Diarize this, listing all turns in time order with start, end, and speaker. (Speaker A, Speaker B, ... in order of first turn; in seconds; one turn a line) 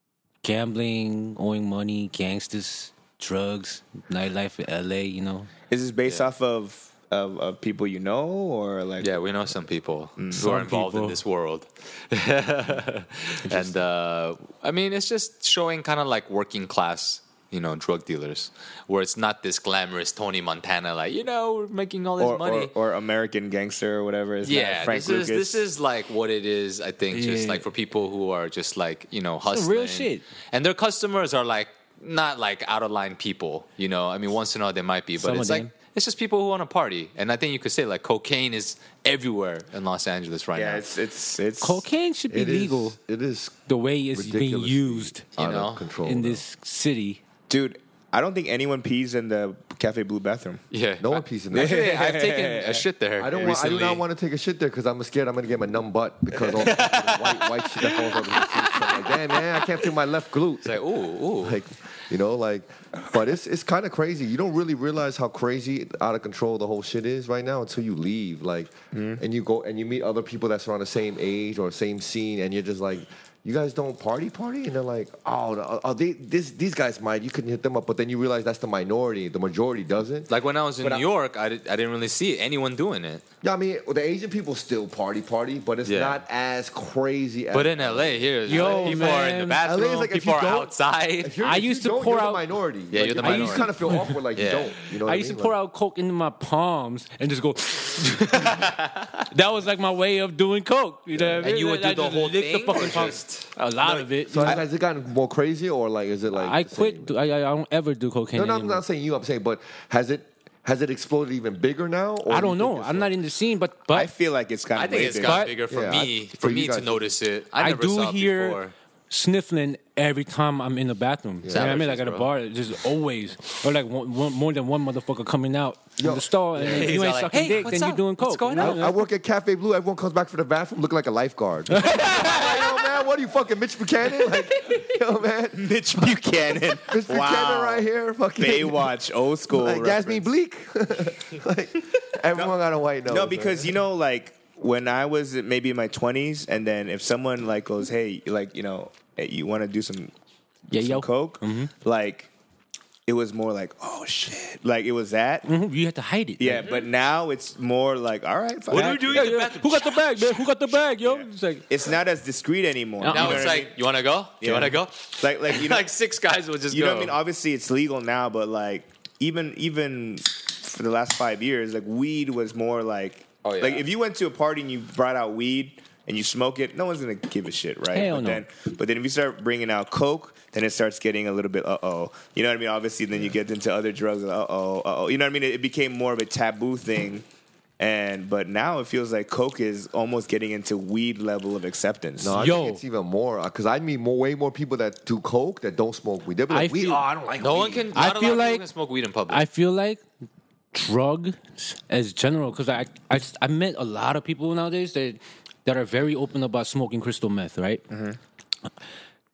Speaker A: 0.4-5.5
Speaker B: 5.7-9.1
Speaker C: 9.0-22.7
Speaker B: 10.2-10.4
Speaker A: 10.3-11.2
Speaker B: 13.4-13.8
Speaker B: 22.2-25.6
Speaker C: 24.4-40.8
Speaker A: 27.1-27.7
Speaker A: 29.5-30.2
Speaker A: 35.2-35.7
Speaker B: 40.5-41.8
Speaker A: 41.6-43.0
Speaker D: 42.3-43.6
Speaker A: 43.7-45.2
Speaker D: 44.1-46.4
Speaker C: 45.4-45.9
Speaker A: 46.0-47.2
Speaker B: 47.5-50.6
Speaker C: 50.7-54.0
Speaker D: 51.0-52.1
Speaker B: 51.5-52.9
Speaker D: 53.2-60.8
Speaker C: 56.5-58.5
Speaker C: 60.6-61.6
Speaker D: 61.4-81.1
Speaker B: 68.9-69.2
Speaker C: 80.3-83.2
Speaker D: 83.4-95.5
Speaker C: 85.8-86.2
Speaker C: 87.5-91.4
Speaker A: 88.5-89.6
Speaker A: 91.4-92.5
Speaker C: 92.9-94.7
Speaker A: 93.2-94.2
Speaker A: 95.0-98.7
Speaker C: 98.5-99.1
Speaker A: 99.3-104.6
Speaker D: 101.1-101.5
Speaker C: 101.4-103.5
Speaker D: 104.3-107.1
Speaker A: 106.3-108.8
Speaker D: 108.3-113.1
Speaker A: 112.3-114.1
Speaker B: 113.9-115.5
Speaker C: 114.7-118.7
Speaker A: 115.2-115.6
Speaker D: 115.7-117.1
Speaker A: 117.6-118.6
Speaker A: 119.1-129.0
Speaker D: 121.4-121.8
Speaker C: 121.5-122.3
Speaker D: 126.0-126.9
Speaker C: 126.6-128.9
Speaker D: 128.6-136.1
Speaker A: 131.7-132.8
Speaker B: 135.5-140.3
Speaker D: 136.8-138.9
Speaker D: 139.5-143.7
Speaker B: 143.1-150.1
Speaker A: 150.7-151.7
Speaker B: 150.7-152.3
Speaker B: 153.1-155.5
Speaker A: 155.4-156.7
Speaker B: 156.4-159.3
Speaker C: 158.7-160.3
Speaker A: 158.7-161.6
Speaker B: 161.0-163.7
Speaker A: 163.0-163.5
Speaker C: 163.1-167.2
Speaker B: 164.4-165.9
Speaker B: 166.7-187.2
Speaker C: 173.4-173.8
Speaker A: 177.9-178.4
Speaker B: 187.8-192.4
Speaker D: 192.2-197.9
Speaker A: 192.3-192.8
Speaker A: 196.5-197.1
Speaker C: 197.4-199.4
Speaker A: 197.9-198.6
Speaker A: 199.3-200.0
Speaker A: 200.7-207.8
Speaker B: 207.9-208.2